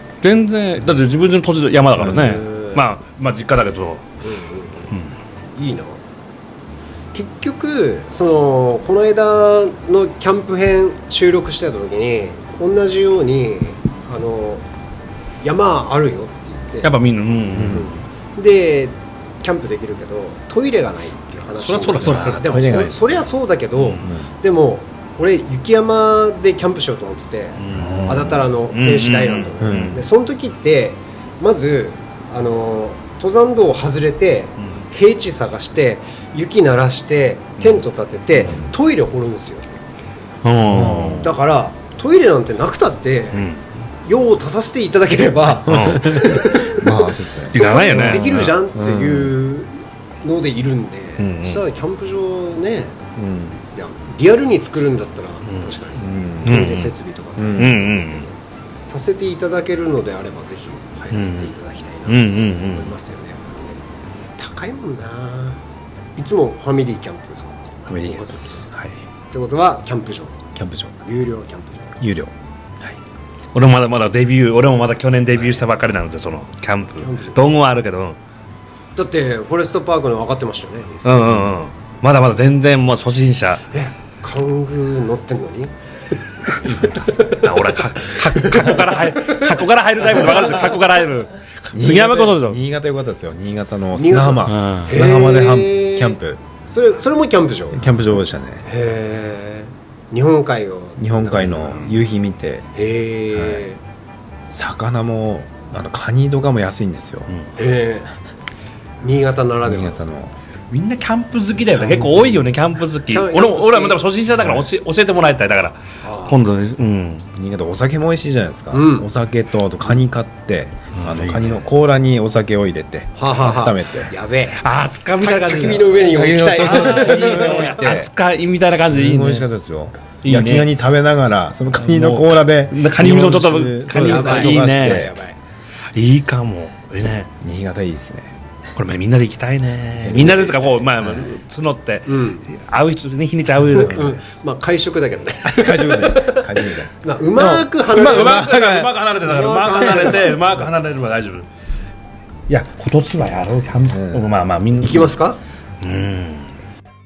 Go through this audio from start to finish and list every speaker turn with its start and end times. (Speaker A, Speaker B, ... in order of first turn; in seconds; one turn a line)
Speaker A: 0.2-4.0
Speaker B: 2.0-2.9
Speaker B: 4.2-4.9
Speaker B: 5.5-6.0
Speaker B: 7.1-14.6
Speaker B: 15.4-16.9
Speaker A: 16.8-17.9
Speaker C: 17.5-18.0
Speaker B: 17.6-39.8
Speaker A: 21.6-22.9
Speaker C: 22.0-23.0
Speaker A: 23.8-24.1
Speaker C: 24.0-24.3
Speaker A: 27.6-30.0
Speaker C: 27.7-28.5
Speaker C: 29.6-30.0
Speaker A: 40.4-41.4
Speaker C: 40.7-41.4
Speaker B: 41.1-43.5
Speaker A: 43.3-43.6
Speaker B: 44.0-46.9
Speaker A: 45.7-46.4
Speaker C: 45.7-49.4
Speaker B: 47.5-53.0
Speaker A: 47.5-48.5
Speaker A: 51.2-51.6
Speaker C: 53.2-53.6
Speaker B: 53.8-63.8
Speaker A: 55.5-55.8
Speaker C: 56.0-56.8
Speaker A: 56.5-56.9
Speaker C: 57.4-57.8
Speaker A: 57.5-58.2
Speaker A: 61.1-61.5
Speaker A: 62.1-62.9
Speaker B: 64.4-65.6
Speaker B: 66.2-68.7
Speaker C: 67.9-68.9
Speaker B: 69.3-70.4
Speaker C: 70.5-71.0
Speaker B: 71.0-72.0
Speaker C: 72.0-72.3
Speaker A: 73.5-78.2
Speaker B: 77.0-77.4
Speaker B: 79.0-81.4
Speaker A: 81.0-83.6
Speaker C: 81.3-81.5
Speaker B: 83.7-85.7
Speaker B: 86.6-87.5
Speaker C: 86.7-87.0
Speaker A: 87.2-92.6
Speaker B: 88.1-89.5
Speaker B: 90.1-90.7
Speaker C: 91.7-96.4
Speaker B: 94.0-97.9
Speaker A: 94.4-95.0
Speaker C: 97.7-98.7
Speaker B: 98.7-101.8
Speaker C: 101.0-102.7
Speaker A: 101.6-101.9
Speaker B: 102.8-103.8
Speaker C: 103.3-103.7
Speaker C: 104.5-107.3
Speaker B: 107.6-108.1
Speaker B: 109.0-110.0
Speaker C: 109.6-110.3
Speaker A: 110.7-117.3
Speaker C: 111.8-112.5
Speaker B: 113.1-114.0
Speaker C: 114.4-114.7
Speaker B: 116.0-116.4
Speaker C: 117.3-124.1
Speaker B: 118.7-119.1
Speaker A: 121.0-121.6
Speaker B: 123.2-124.6
Speaker A: 124.6-129.5
Speaker B: 125.2-127.9
Speaker C: 126.0-128.1
Speaker C: 128.7-135.2
Speaker A: 130.2-130.7
Speaker A: 131.7-135.2
Speaker B: 133.9-135.3
Speaker A: 135.9-137.3
Speaker C: 137.4-138.3
Speaker A: 138.8-144.2
Speaker C: 140.0-141.3
Speaker B: 142.1-142.5
Speaker C: 143.7-144.2
Speaker B: 143.8-148.6
Speaker C: 145.4-146.9
Speaker A: 147.3-151.5
Speaker C: 148.0-149.0
Speaker B: 149.2-150.5
Speaker A: 152.5-155.1
Speaker C: 153.9-154.3
Speaker B: 154.8-155.4
Speaker A: 155.8-156.5